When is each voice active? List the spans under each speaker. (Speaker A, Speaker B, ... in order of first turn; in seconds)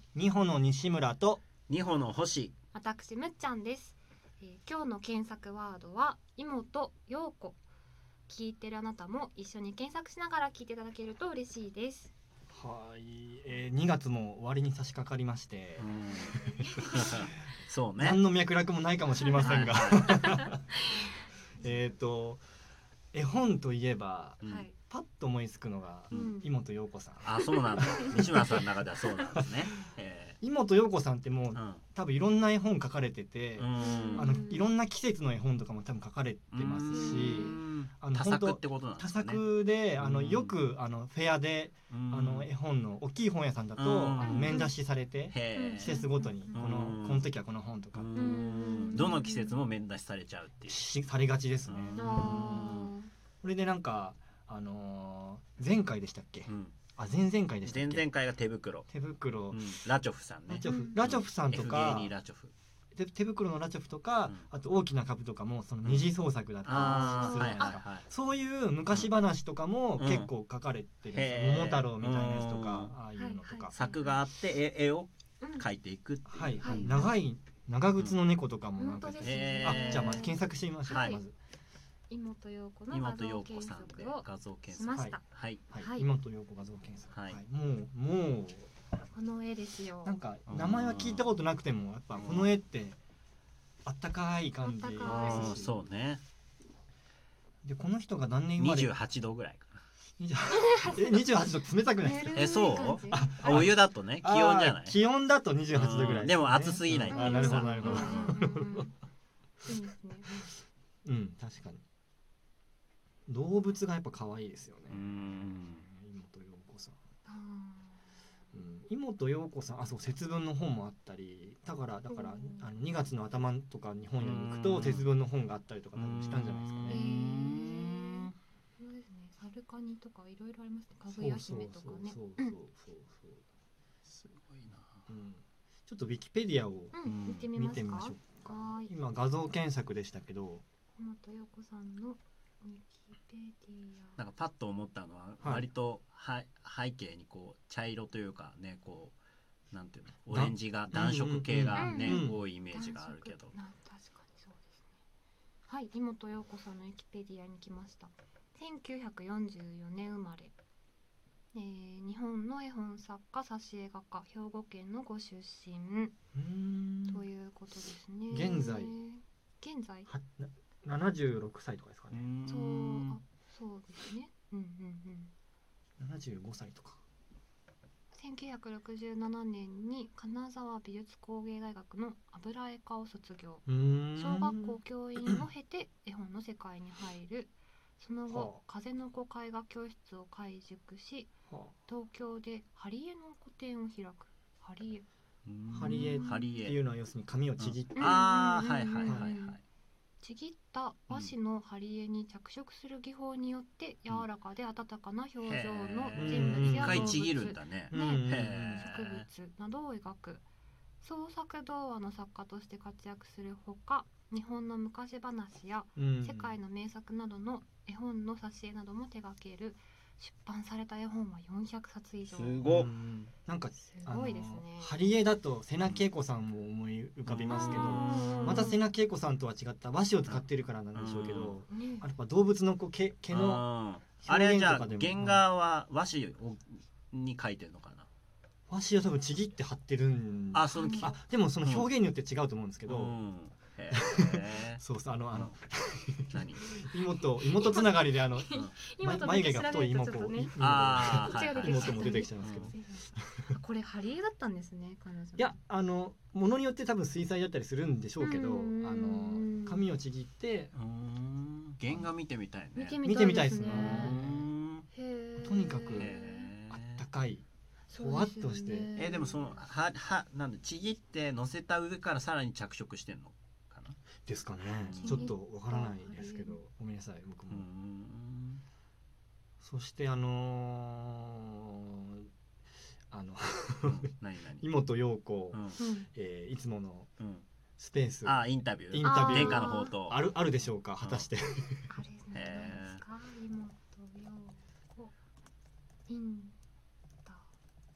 Speaker A: 0.1-1.4, 12.5-16.6, 18.0-20.6, 21.6-22.4, 23.1-28.6, 29.3-29.6, 30.4-48.1, 50.7-52.8, 53.4-58.1, 58.9-59.6, 60.5-62.1, 62.9-73.7, 76.2-81.3, 85.7-88.7, 90.0-93.0, 93.8-95.7, 97.6-98.9, 100.2-108.8, 111.0-111.8, 113.3-117.0, 118.5-127.0, 131.1-133.4, 135.1-137.0, 137.5-140.6, 150.3-152.4, 166.3-167.2, 168.3-168.9, 170.1-172.3, 176.0-177.0, 183.7-185.5, 188.3-188.6, 195.7-198.3, 199.0-199.3, 206.2-207.2, 207.9-208.8, 215.9-216.6, 222.6-233.6, 234.2-235.4, 238.7-243.1, 243.9-253.2, 255.4-260.7, 263.0-264.4, 265.4-266.1, 266.7-268.9, 274.2-277.7, 279.6-282.3, 283.1-285.6, 286.1-287.1, 287.8-291.9
Speaker B: 1.7-2.5, 15.8-16.4, 16.9-18.2, 19.4-20.2, 27.2-30.4, 31.5-31.8, 33.6-34.4, 36.5-39.4, 40.0-40.6, 41.9-42.5, 43.8-44.7, 45.3-47.3, 47.9-50.8, 51.6-52.9, 56.5-56.8, 57.6-58.9, 59.5-62.5, 65.8-66.1, 66.6-68.0, 70.0-70.3, 71.1-73.0, 73.7-77.1, 79.2-80.3, 80.9-81.2, 82.9-85.6, 87.1-87.4, 90.5-91.4, 92.1-92.6, 95.0-96.2, 98.6-99.8, 102.3-105.0, 105.7-108.3, 114.9-115.8, 124.2-125.1, 125.9-128.3, 134.1-135.1, 137.0-137.5, 144.2-149.1, 149.7-153.6, 172.1-173.2, 195.4-196.8, 197.6-199.6, 205.4-209.2, 222.2-222.9, 227.2-228.7, 230.3-231.6, 233.3-238.1, 240.5-241.9, 242.8-244.8, 246.3-246.7, 250.6-252.7, 260.7-263.0, 263.6-264.9, 265.9-267.0, 268.9-274.0, 274.8-275.3, 277.5-278.6, 283.8-284.7, 285.5-285.8, 287.2-287.4, 288.2-290.3, 291.0-291.3, 292.3-293.0
Speaker C: 2.7-7.6, 8.3-12.1, 16.3-17.2, 19.2-21.1, 24.4-24.8, 26.1-26.5, 27.7-28.1, 33.8-34.7, 36.7-37.6, 44.2-44.7, 45.5-46.6, 48.1-49.6, 52.0-53.1, 60.6-61.1, 66.7-67.8, 73.2-74.2, 75.4-75.7, 76.6-77.1, 78.8-81.2, 82.1-85.2, 85.7-86.1, 89.1-90.2, 94.6-95.7, 100.5-101.2, 102.0-103.7, 107.1-108.9, 109.6-110.5, 117.2-118.0, 122.1-122.7, 126.9-132.5, 136.9-138.9, 140.9-144.2, 151.8-154.8, 155.7-160.5, 161.5-166.1, 167.1-170.1, 172.4-175.3, 178.1-191.3, 191.9-195.0, 195.8-196.7, 197.9-199.6, 200.2-210.4, 211.0-222.6, 223.8-225.0, 227.5-228.8, 231.7-232.1, 240.7-241.1, 247.4-255.5, 258.2-259.9, 262.7-264.2, 264.9-266.5, 267.9-269.7, 275.0-276.6, 285.8-286.1, 289.0-290.0, 291.9-295.1, 296.1-296.5